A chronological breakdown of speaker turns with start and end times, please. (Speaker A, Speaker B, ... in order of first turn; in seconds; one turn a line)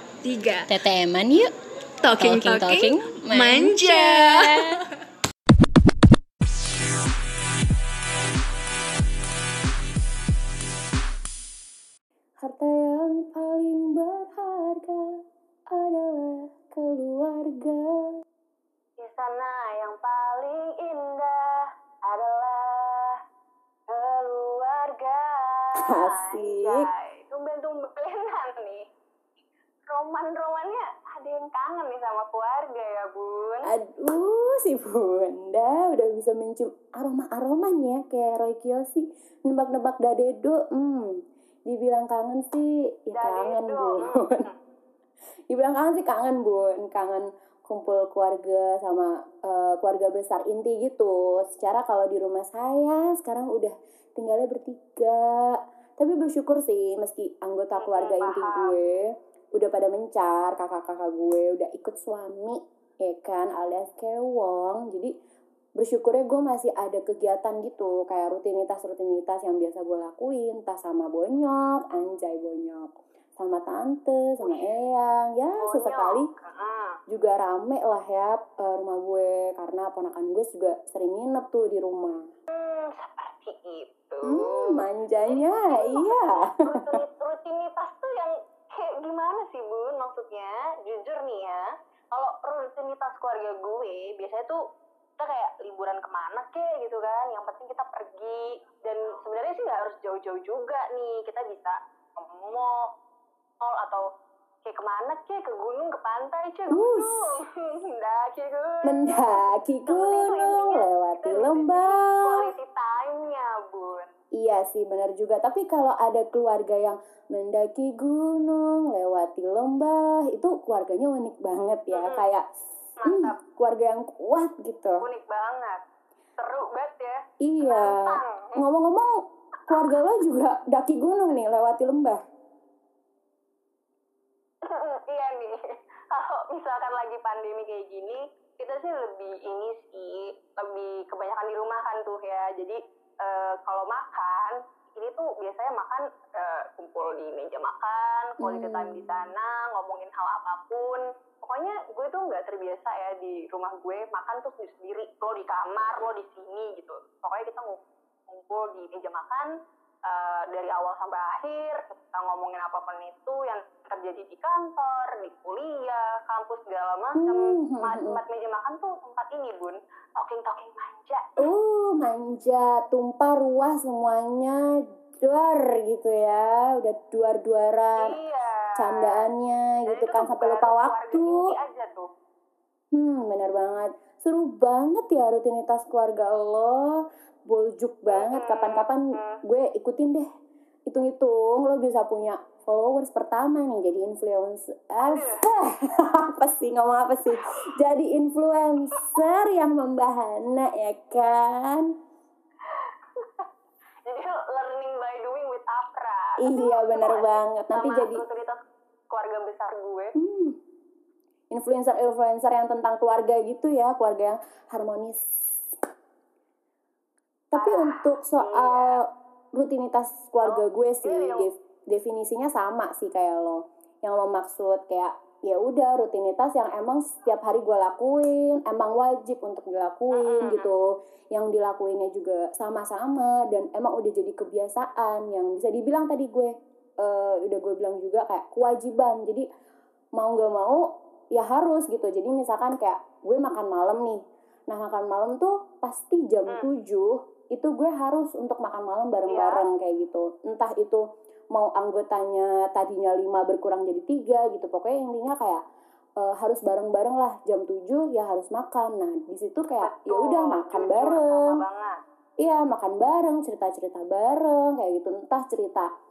Speaker A: 0.2-0.7
Speaker B: 0.7-1.5
Speaker A: 2.0-4.8
Speaker B: 2.2-4.6
Speaker B: 12.4-18.1
Speaker C: 19.0-23.2
Speaker C: 23.9-28.9
Speaker B: 25.8-26.9
Speaker C: 29.9-33.7
Speaker B: 33.6-44.5
Speaker C: 43.2-44.5
Speaker B: 45.5-65.1
Speaker C: 57.8-58.8
Speaker B: 65.8-76.3
Speaker C: 75.6-77.0
Speaker B: 77.1-82.3
Speaker C: 82.5-94.6
Speaker B: 84.2-87.0
Speaker C: 95.2-102.9
Speaker C: 103.6-104.1
Speaker C: 104.6-114.1
Speaker B: 106.7-107.3
Speaker B: 108.8-112.5
Speaker B: 114.3-122.5
Speaker C: 121.9-122.2
Speaker C: 123.0-123.4
Speaker B: 123.1-125.0
Speaker C: 125.0-125.8
Speaker C: 126.4-128.6
Speaker B: 127.4-129.2
Speaker B: 129.7-132.2
Speaker C: 134.6-159.5
Speaker B: 148.4-149.3
Speaker C: 160.1-171.5
Speaker B: 167.2-168.2
Speaker B: 171.4-174.7
Speaker B: 175.2-178.2
Speaker C: 178.0-179.3
Speaker B: 178.8-181.5
Speaker C: 179.9-182.1
Speaker B: 182.9-190.2
Speaker C: 188.1-189.4
Speaker B: 190.9-201.9
Speaker C: 195.0-195.4
Speaker C: 199.0-199.2
Speaker C: 202.7-203.5
Speaker C: 204.1-208.6
Speaker B: 206.4-208.2
Speaker C: 209.1-210.1
Speaker B: 210.2-210.6
Speaker B: 211.5-215.8
Speaker B: 217.5-236.5
Speaker C: 217.6-218.9
Speaker C: 220.4-221.5
Speaker C: 230.1-230.7
Speaker B: 237.0-239.4
Speaker B: 240.2-240.8
Speaker B: 241.3-255.6
Speaker C: 249.3-249.7
Speaker B: 256.2-261.6
Speaker C: 259.8-262.0
Speaker B: 262.4-265.9